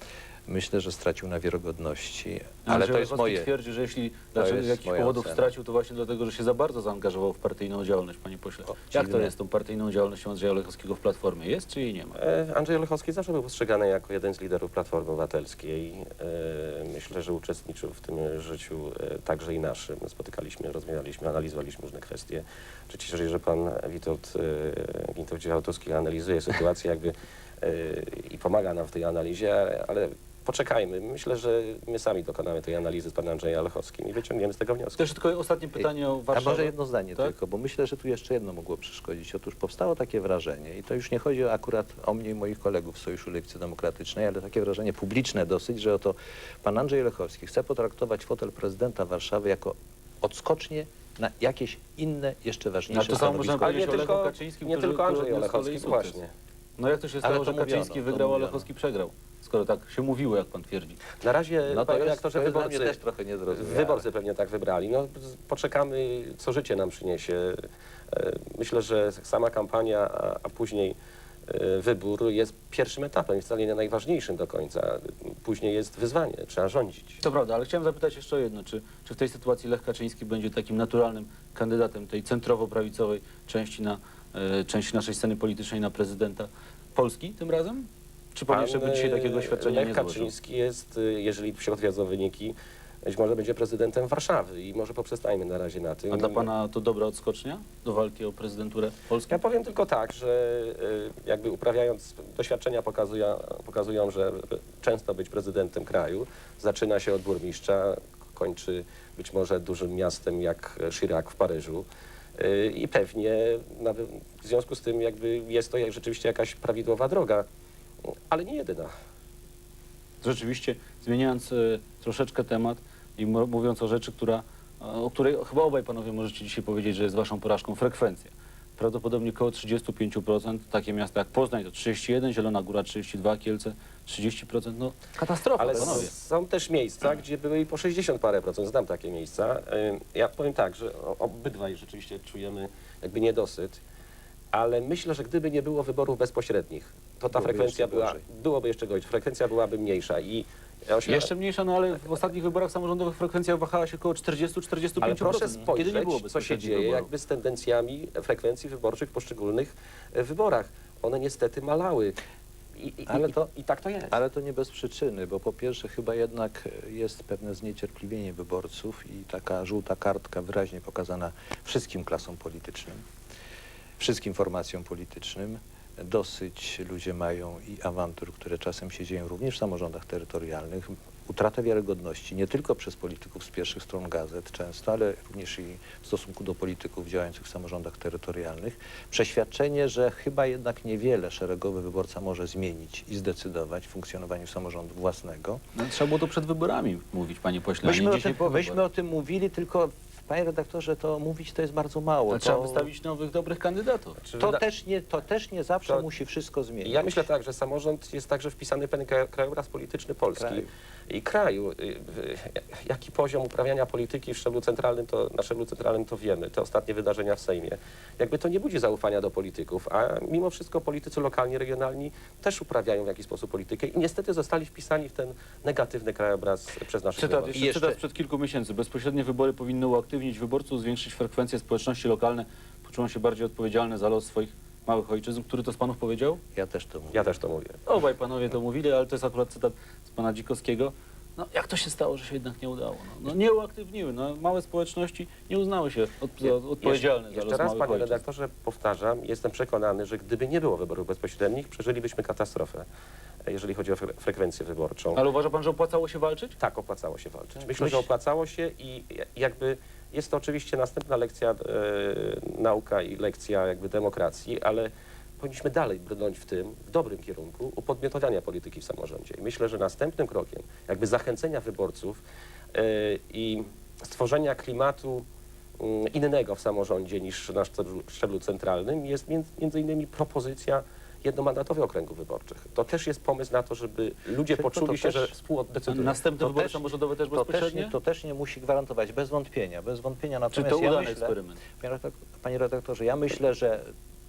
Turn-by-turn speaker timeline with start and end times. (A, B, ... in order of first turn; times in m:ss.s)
0:00.5-0:03.5 A
0:02.7-0:12.2 B
0:04.4-0:05.5 A
0:08.8-0:09.3 A
0:12.2-0:35.1 C
0:35.0-0:37.3 B
0:35.8-0:54.0 A
0:52.9-0:56.2 B
0:53.6-0:56.3 C
0:56.8-1:01.0 B
0:57.2-0:58.7 A
1:01.1-1:11.0 C
1:01.6-1:04.1 A
1:11.5-1:17.2 C
1:17.2-1:30.3 B
1:28.5-1:36.5 C
1:36.1-1:39.4 B
1:39.3-1:57.4 C
1:58.3-1:58.9 C
2:00.2-2:16.1 B
2:15.6-2:23.8 C
2:15.7-2:16.0 A
2:24.5-2:31.3 C
2:27.3-2:28.2 A
2:31.1-2:37.1 B
2:35.0-2:42.2 C
2:42.8-2:44.2 C
2:43.1-2:43.5 A
2:44.1-2:53.0 A
2:54.0-3:15.6 A
3:15.8-3:18.8 B
3:17.8-3:22.9 A
3:22.3-3:24.2 B
3:24.2-3:24.6 C
3:24.4-3:27.3 A
3:26.8-3:47.6 C
3:30.4-3:30.7 A
3:47.2-3:56.4 B
3:47.5-3:48.0 A
3:56.5-3:57.4 A
3:57.1-3:57.8 C
3:57.9-4:08.2 B
4:06.4-4:12.9 C
4:13.5-4:15.2 C
4:15.2-4:16.6 B
4:16.6-4:32.2 C
4:17.7-4:18.1 B
4:32.7-4:35.3 C
4:35.8-4:46.2 C
4:44.5-4:45.3 A
4:45.9-4:47.9 B
4:46.4-4:53.9 A
4:50.5-4:51.6 B